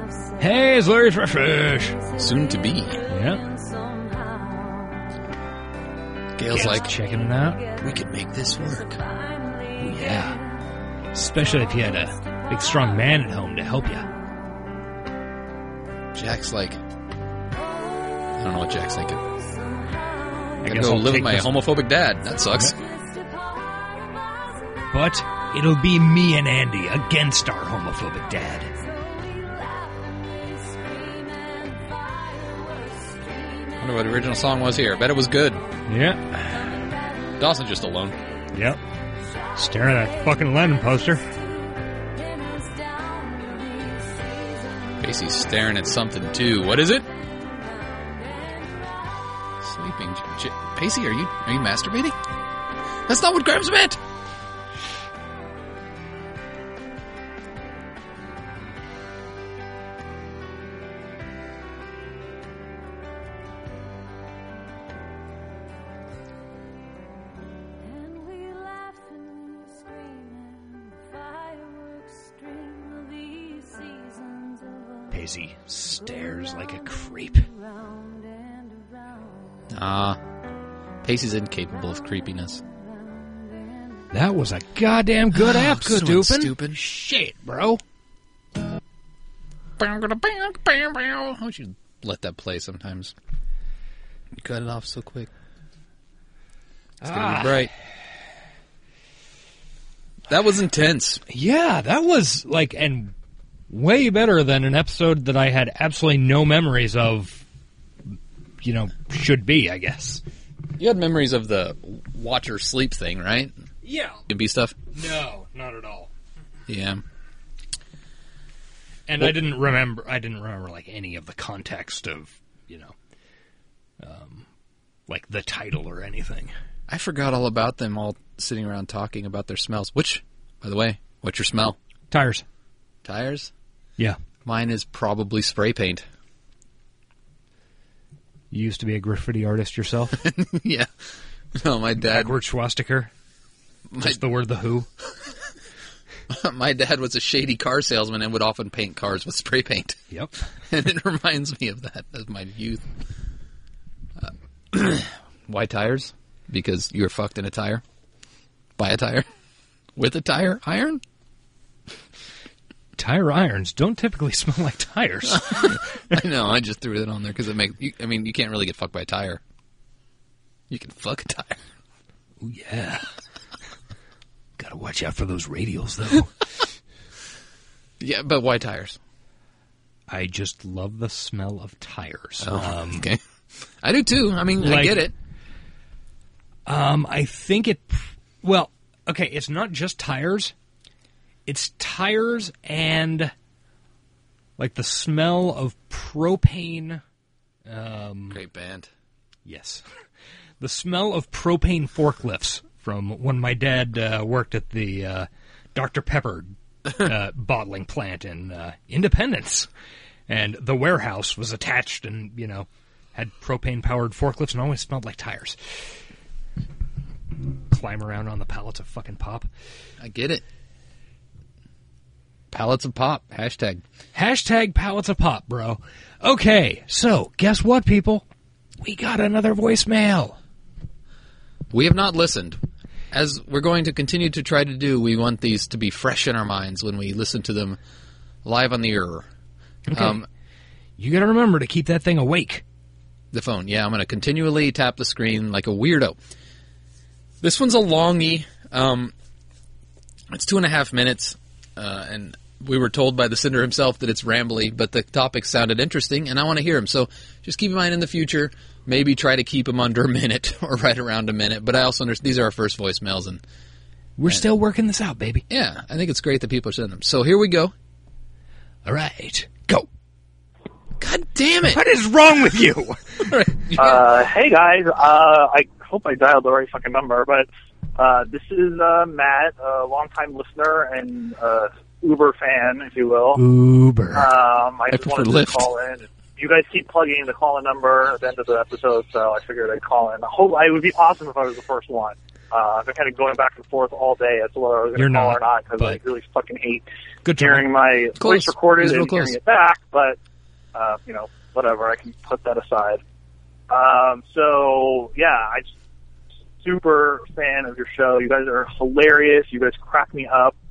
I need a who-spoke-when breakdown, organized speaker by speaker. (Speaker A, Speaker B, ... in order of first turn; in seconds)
Speaker A: 0.4-2.0, 3.1-3.4, 6.5-7.6, 9.8-10.4, 11.1-14.1, 20.6-21.6, 24.9-28.7, 35.9-36.8, 38.5-38.8, 39.5-41.2, 75.1-77.5, 84.1-87.8, 97.0-97.7, 101.3-103.1, 103.7-107.4, 108.6-110.2, 113.8-114.2, 114.9-116.1, 119.1-122.9, 124.0-124.5, 125.1-126.5, 132.1-132.4, 138.5-140.2, 142.0-143.1, 144.0-144.9, 150.1-150.4, 163.0-165.8, 172.4-173.1, 174.6-176.4, 180.1-183.1, 184.6-185.1, 186.7-190.5, 191.4-193.3, 194.6-197.0, 197.7-198.4, 199.4-199.8, 200.6-209.7, 210.3-215.9, 217.7-219.5, 224.1-228.2, 228.8-230.4, 239.9-240.2, 241.0-242.6, 264.2-265.4, 268.9-269.9, 271.6-273.3, 283.3-284.3, 294.9-296.0, 297.2-297.7
Speaker B: 2.1-3.0, 6.3-6.9, 7.8-9.0, 16.1-16.8, 18.4-19.2, 20.6-22.8, 33.8-35.6, 37.4-38.2, 45.0-47.1, 49.6-52.1, 53.1-54.0, 79.7-80.2, 81.0-82.6, 85.3-86.8, 89.8-93.1, 94.4-95.3, 97.0-97.7, 100.3-101.2, 110.8-113.5, 114.3-114.8, 116.7-117.0, 126.9-131.8, 133.0-133.5, 134.4-136.0, 140.2-140.9, 141.6-142.3, 143.9-144.2, 146.3-150.0, 150.7-152.8, 154.2-157.8, 158.8-159.3, 159.9-161.0, 165.3-169.4, 170.7-171.6, 178.0-179.0, 182.4-183.2, 183.8-185.1, 198.3-198.9, 220.0-220.4, 222.5-223.8, 231.7-232.6, 233.1-237.8, 238.4-239.3, 239.9-240.2, 243.3-246.2, 247.4-249.1, 250.3-263.4, 265.5-267.7, 271.0-271.8, 273.2-274.2, 284.9-285.7, 298.1-299.4
Speaker C: 273.8-283.4, 284.1-300.2, 300.7-303.0, 303.7-305.7, 306.6-310.5